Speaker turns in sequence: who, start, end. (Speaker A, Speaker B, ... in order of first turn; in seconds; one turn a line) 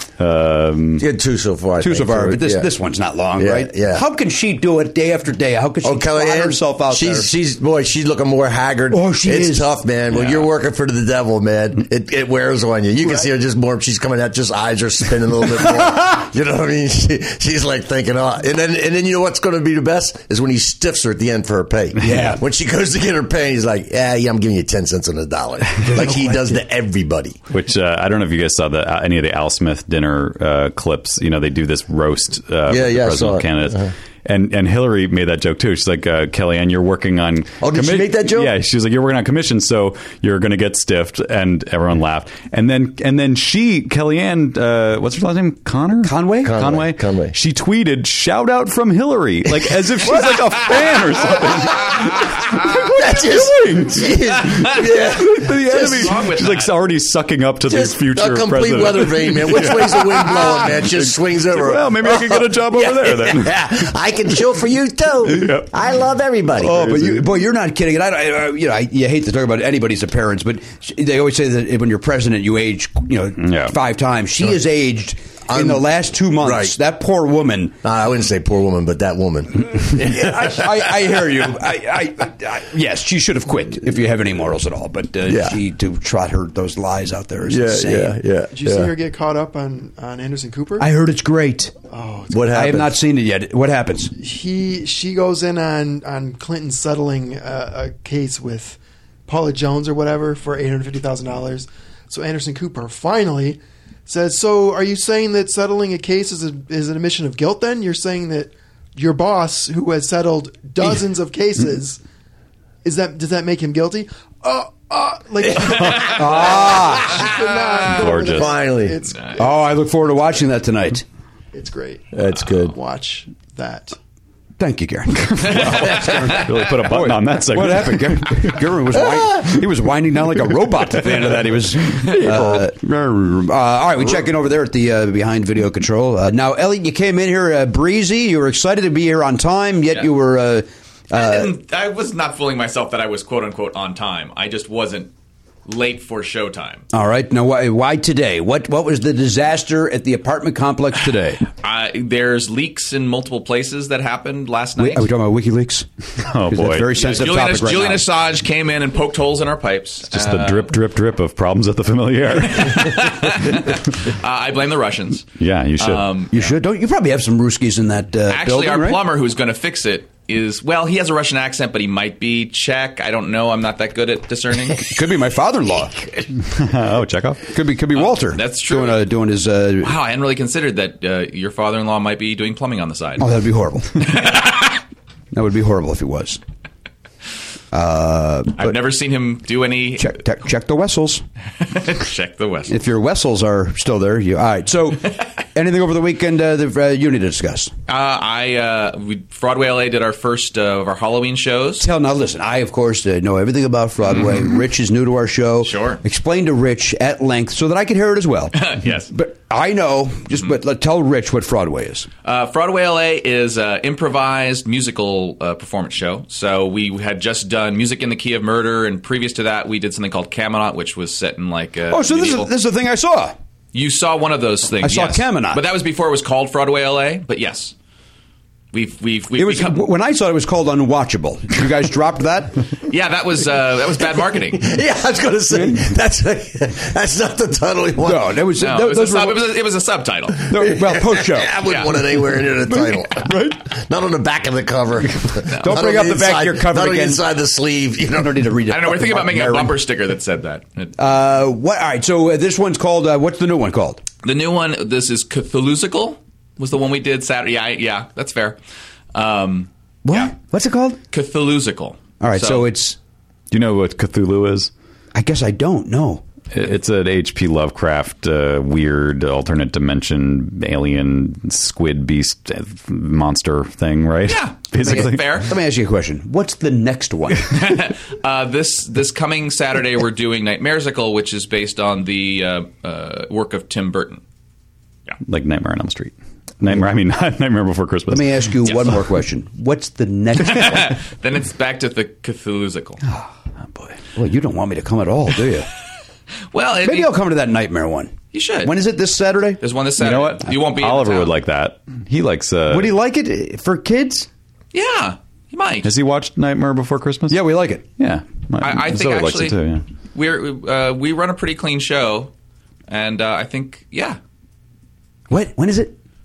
Speaker A: 0.2-1.0
Speaker B: 1.0-2.7
Speaker C: 1.8-7.3
Speaker B: 3.4-4.0
Speaker B: 5.8-27.4
Speaker C: 8.9-9.7
Speaker C: 22.0-22.4
Speaker C: 25.9-26.3
Speaker A: 27.5-63.7
Speaker B: 32.7-33.9
Speaker B: 37.6-38.5
Speaker C: 46.0-46.5
Speaker B: 46.4-47.3
Speaker B: 52.8-56.2
Speaker D: 55.7-56.7
Speaker B: 57.7-66.9
Speaker A: 65.2-65.8
Speaker A: 66.6-67.2
Speaker C: 66.6-77.7
Speaker A: 73.4-73.7
Speaker B: 75.5-76.7
Speaker B: 77.8-81.0
Speaker C: 80.0-88.2
Speaker B: 85.2-85.6
Speaker B: 87.5-88.9
Speaker E: 88.5-90.9
Speaker C: 90.8-91.7
Speaker E: 91.9-92.5
Speaker B: 92.3-93.0
Speaker C: 92.5-94.1
Speaker E: 94.1-112.0
Speaker E: 112.8-119.5
Speaker C: 116.1-117.2
Speaker D: 117.3-117.8
Speaker A: 118.0-118.5
Speaker B: 118.3-119.0
Speaker D: 119.1-119.4
Speaker C: 119.4-121.0
Speaker E: 121.5-122.1
Speaker B: 122.1-122.7
Speaker E: 122.6-124.0
Speaker C: 124.6-141.5
Speaker A: 125.5-128.6
Speaker D: 125.5-126.2
Speaker D: 141.1-145.1
Speaker D: 145.7-146.8
Speaker C: 146.9-151.4
Speaker D: 151.6-155.1
Speaker C: 154.8-155.9
Speaker A: 156.2-157.2
Speaker C: 156.5-158.0
Speaker D: 157.0-160.7
Speaker A: 160.1-163.2
Speaker D: 162.5-165.3
Speaker A: 165.4-166.1
Speaker D: 165.8-166.5
Speaker C: 166.3-169.0
Speaker D: 168.3-174.9
Speaker C: 174.8-176.1
Speaker A: 176.4-177.4
Speaker C: 177.5-179.9
Speaker D: 177.9-179.1
Speaker D: 179.8-183.3
Speaker C: 183.2-184.1
Speaker D: 184.0-184.8
Speaker C: 185.3-186.4
Speaker C: 187.7-188.7
Speaker D: 188.6-190.2
Speaker C: 190.0-191.2
Speaker D: 191.6-192.7
Speaker C: 192.7-197.7
Speaker D: 197.9-201.8
Speaker C: 201.8-212.1
Speaker D: 205.6-206.0
Speaker D: 208.5-209.1
Speaker D: 212.2-222.5
Speaker C: 221.9-223.3
Speaker D: 223.7-227.7
Speaker C: 224.8-225.6
Speaker D: 228.7-229.8
Speaker C: 229.3-232.6
Speaker D: 232.9-234.7
Speaker B: 234.6-238.3
Speaker C: 235.5-235.8
Speaker C: 238.0-239.4
Speaker D: 238.6-240.5
Speaker C: 240.5-241.6
Speaker B: 240.7-248.4
Speaker C: 242.7-243.6
Speaker C: 245.6-247.2
Speaker C: 248.2-249.8
Speaker D: 248.7-250.9
Speaker C: 251.0-254.0
Speaker D: 254.2-258.6
Speaker D: 259.1-260.3
Speaker C: 260.0-261.0
Speaker D: 261.1-262.7
Speaker C: 262.2-263.0
Speaker A: 263.5-264.7
Speaker C: 265.1-266.2
Speaker A: 266.5-275.4
Speaker D: 274.3-275.5
Speaker C: 274.8-277.6
Speaker D: 277.5-284.2
Speaker A: 285.2-288.5
Speaker C: 288.1-291.0
Speaker D: 290.4-293.0
Speaker C: 294.1-295.7
Speaker D: 296.5-297.1
Speaker C: 296.8-299.6
Speaker D: 298.3-298.7
Speaker D: 299.6-301.3
Speaker A: 300.0-302.9
Speaker C: 302.7-304.3
Speaker D: 304.7-305.9
Speaker A: 305.8-307.4
Speaker C: 307.3-307.8
Speaker A: 308.0-309.8
Speaker D: 308.6-309.6
Speaker D: 310.1-312.3
Speaker D: 312.9-314.2
Speaker C: 315.3-316.0